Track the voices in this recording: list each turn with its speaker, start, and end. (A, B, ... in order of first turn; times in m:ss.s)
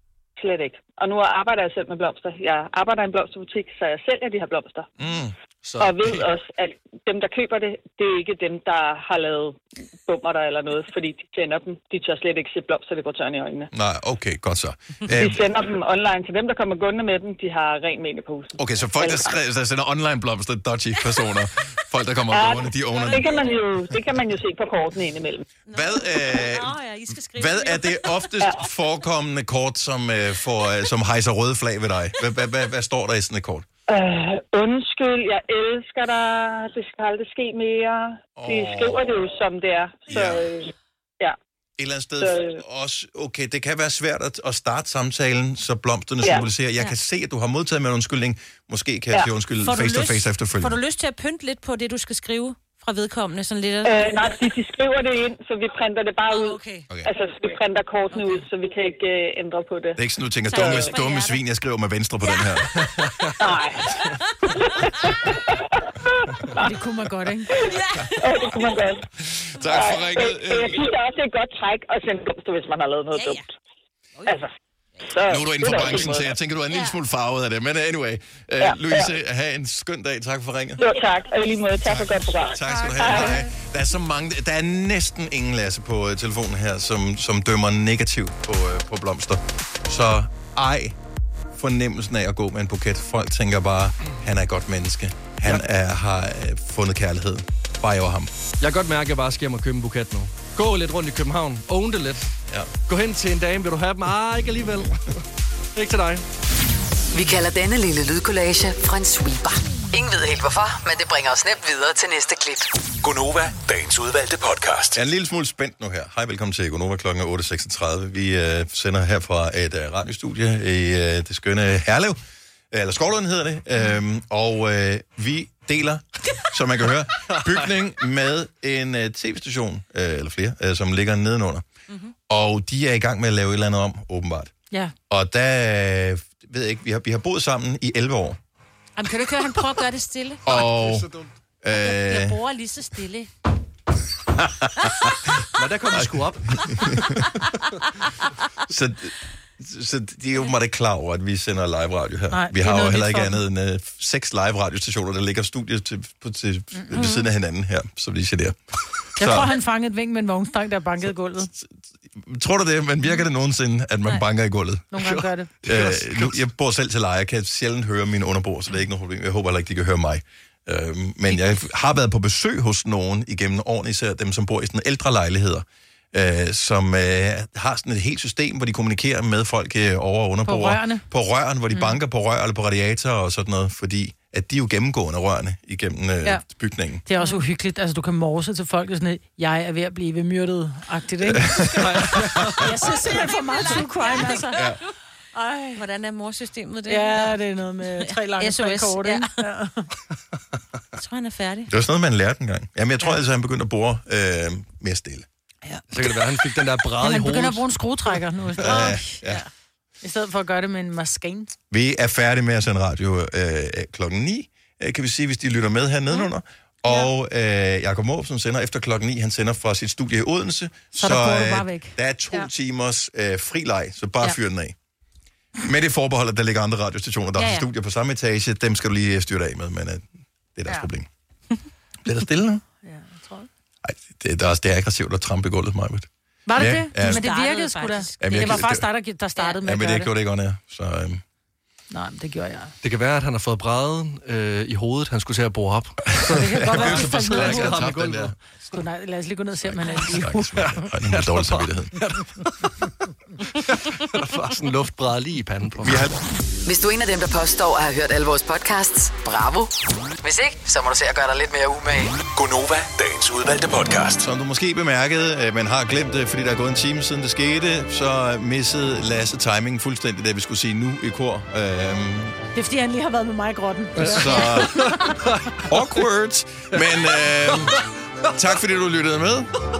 0:00.4-0:04.9 A
0:05.0-0:05.4 B
0:05.6-0:06.3 C
0:05.8-0:13.7 A
0:13.7-0:15.4 B
0:15.2-0:19.3 A
0:18.6-0:23.4 B
0:22.3-0:25.4 A
0:22.7-0:23.6 D
0:25.7-0:28.3 D
0:25.7-0:26.8 B
0:27.3-0:33.6 B
0:33.9-0:41.4 A
0:38.4-0:39.0 B
0:40.1-0:40.4 B
0:41.8-0:50.8 B
0:42.2-0:42.6 A
0:49.6-0:54.3 D
0:53.8-1:00.0 A
0:56.3-0:56.9 D
0:58.1-0:58.4 D
1:00.0-1:03.1 B
1:00.5-1:01.4 D
1:00.5-1:00.9 A
1:02.2-1:02.6 D
1:03.4-1:03.9 A
1:04.5-1:06.7 A
1:04.9-1:05.1 D
1:06.5-1:07.5 E
1:07.5-1:09.0 A
1:07.6-1:08.6 D
1:09.2-1:10.8 B
1:09.6-1:13.5 A
1:13.1-1:13.4 D
1:14.2-1:14.5 A
1:15.0-1:16.3 A
1:15.3-1:20.8 B
1:16.7-1:17.0 D
1:18.6-1:19.1 A
1:20.8-1:23.3 A
1:21.8-1:31.0 B
1:31.5-1:38.3 B
1:38.6-1:42.3 C
1:42.9-1:45.2 C
1:45.8-1:46.2 C
1:47.1-1:52.7 F
1:53.0-1:55.0 G
1:54.9-2:02.2 B
2:02.7-2:11.6 B
2:12.3-2:14.5 B
2:15.1-2:18.4 B
2:19.0-2:20.6 D
2:20.4-2:21.1 B
2:20.8-2:21.3 C
2:21.6-2:22.4 B
2:21.8-2:23.3 D
2:24.5-2:25.1 B
2:25.6-2:26.6 C
2:25.9-2:27.2 B
2:28.7-2:38.6 B
2:32.3-2:33.4 E
2:36.9-2:37.2 D
2:39.1-2:39.5 B
2:39.2-2:41.5 E
2:41.5-2:44.9 B
2:44.9-2:45.5 E
2:45.0-2:46.4 C
2:45.6-3:07.0 B
3:00.4-3:01.0 E
3:07.0-3:14.7 E
3:11.3-3:12.5 B
3:11.8-3:12.7 C
3:13.0-3:14.8 D
3:14.5-3:14.8 B
3:15.3-3:15.8 E
3:15.7-3:17.4 D
3:16.9-3:19.9 E
3:18.0-3:19.3 D
3:21.0-3:21.7 D
3:21.7-3:25.2 B
3:25.6-3:26.2 E
3:25.9-3:27.6 C
3:27.0-3:29.1 E
3:28.6-3:29.4 B
3:28.7-3:29.5 D
3:30.0-3:31.5 E
3:31.7-3:44.7 B
3:40.9-3:42.5 E
3:45.6-3:51.1 B
3:47.4-3:47.6 D
3:52.0-3:52.6 B
3:52.8-3:53.5 E
3:53.8-3:57.2 B
3:56.5-4:00.1 E
3:57.0-3:58.6 D
3:58.2-3:58.9 B
3:59.6-4:01.2 B
4:01.9-4:02.7 E
4:02.8-4:08.3 C
4:06.1-4:08.4 B
4:06.3-4:07.9 E
4:08.7-4:10.7 E
4:09.7-4:12.0 B
4:10.6-4:12.9 C
4:13.4-4:16.1 C
4:15.8-4:16.2 B
4:16.6-4:22.2 F
4:22.3-4:24.2 G
4:24.2-4:32.4 B
4:32.5-4:35.1 E
4:34.0-4:35.7 C
4:34.0-4:35.0 B
4:35.6-4:37.8 B
4:36.7-4:37.8 C
4:38.3-4:39.5 B